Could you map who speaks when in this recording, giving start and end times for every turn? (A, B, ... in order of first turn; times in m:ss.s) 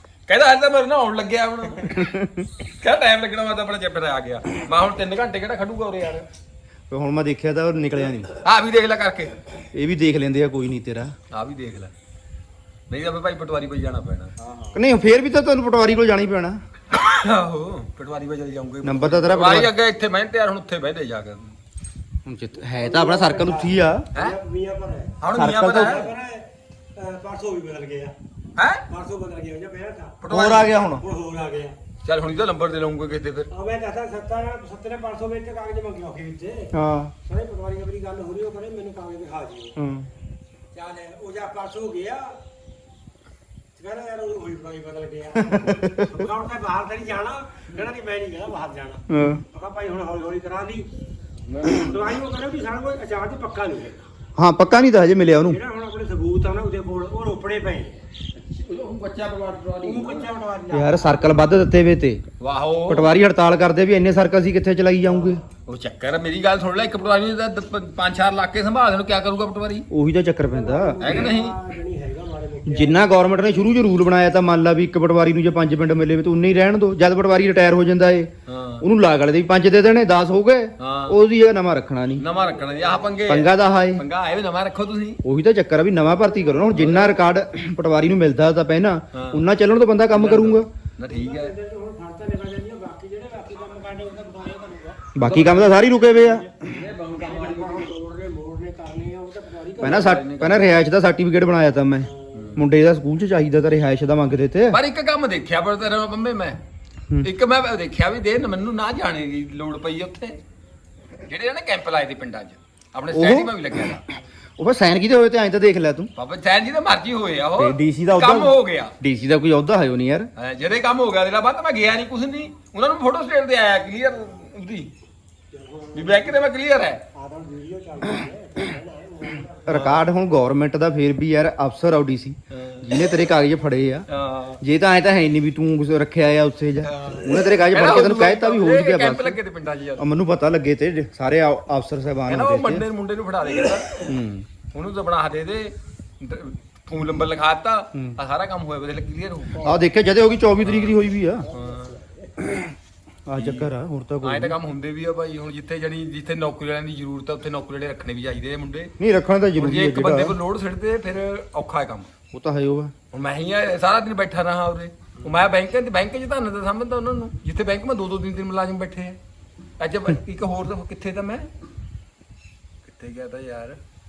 0:00.3-0:02.1 A
0:02.0-0:02.5 B
0:02.8-0:06.3 A
0:06.9-0:08.3 B
0:08.4-0:09.4 A
0:09.7-0:11.1 B
0:11.3-0:11.9 A
0:12.9-0:14.4 A
0:14.7-0:16.6 B
0:16.9-0:21.5 A
0:18.8-0:19.7 B
0:22.3-0:24.1 B
0:22.6-0:25.2 C
0:25.2-0:26.2 A
0:25.4-0:26.0 B
0:25.7-0:28.2 C
0:28.6-0:28.8 A
0:28.9-0:30.2 C
0:30.2-0:30.8 A
0:30.3-0:31.0 B
0:30.8-0:31.8 C
0:32.0-0:33.5 A
0:33.5-0:36.7 C
0:36.7-0:37.1 B
0:37.2-0:39.7 C
0:39.8-0:40.1 B
0:40.7-0:42.3 C
0:43.8-0:50.9 C
0:45.4-0:46.2 B
0:49.1-0:49.4 B
0:51.5-0:52.1 A
0:51.7-0:54.0 C
0:54.4-0:55.6 B
0:55.5-0:58.0 C
0:58.3-1:00.3 A
0:59.8-1:01.1 C
1:00.7-1:02.2 B
1:02.4-1:03.1 A
1:02.9-1:05.4 B
1:05.7-1:09.9 A
1:09.9-1:11.3 B
1:10.5-1:13.4 C
1:11.0-1:11.6 A
1:12.7-1:22.2 B
1:18.5-1:18.8 A
1:20.8-1:21.2 A
1:22.2-1:25.2 A
1:22.3-1:23.2 C
1:23.2-1:24.0 B
1:25.2-1:30.7 B
1:26.7-1:27.2 A
1:29.1-1:29.4 A
1:30.1-1:31.6 A
1:31.1-1:35.0 C
1:35.1-1:36.5 B
1:35.2-1:37.8 A
1:36.3-1:36.5 C
1:37.1-1:40.2 C
1:39.8-1:44.8 B
1:39.8-1:40.8 A
1:42.0-1:42.6 C
1:42.3-1:42.6 A
1:44.7-1:46.6 A
1:47.2-1:50.4 A
1:51.3-1:54.0 A
1:53.1-1:54.0 B
1:54.6-1:56.1 B
1:56.2-1:59.0 A
1:57.6-2:00.3 B
2:00.4-2:04.9 A
2:05.5-2:06.4 C
2:05.9-2:07.0 A
2:07.1-2:10.0 C
2:09.7-2:14.1 B
2:09.7-2:10.0 A
2:12.5-2:13.0 A
2:14.1-2:14.6 A
2:14.6-2:19.4 B
2:16.8-2:20.0 A
2:20.0-2:22.9 B
2:22.3-2:24.1 A
2:24.1-2:24.5 B
2:24.7-2:29.7 A
2:29.6-2:29.9 C
2:29.6-2:31.5 B
2:30.6-2:32.0 A
2:31.4-2:32.3 C
2:33.3-2:34.6 B
2:33.4-2:33.7 A
2:34.2-2:38.9 A
2:39.0-2:40.4 B
2:39.6-2:42.1 A
2:42.3-2:42.9 B
2:43.1-2:49.2 A
2:49.8-2:51.5 A
2:52.9-2:53.8 A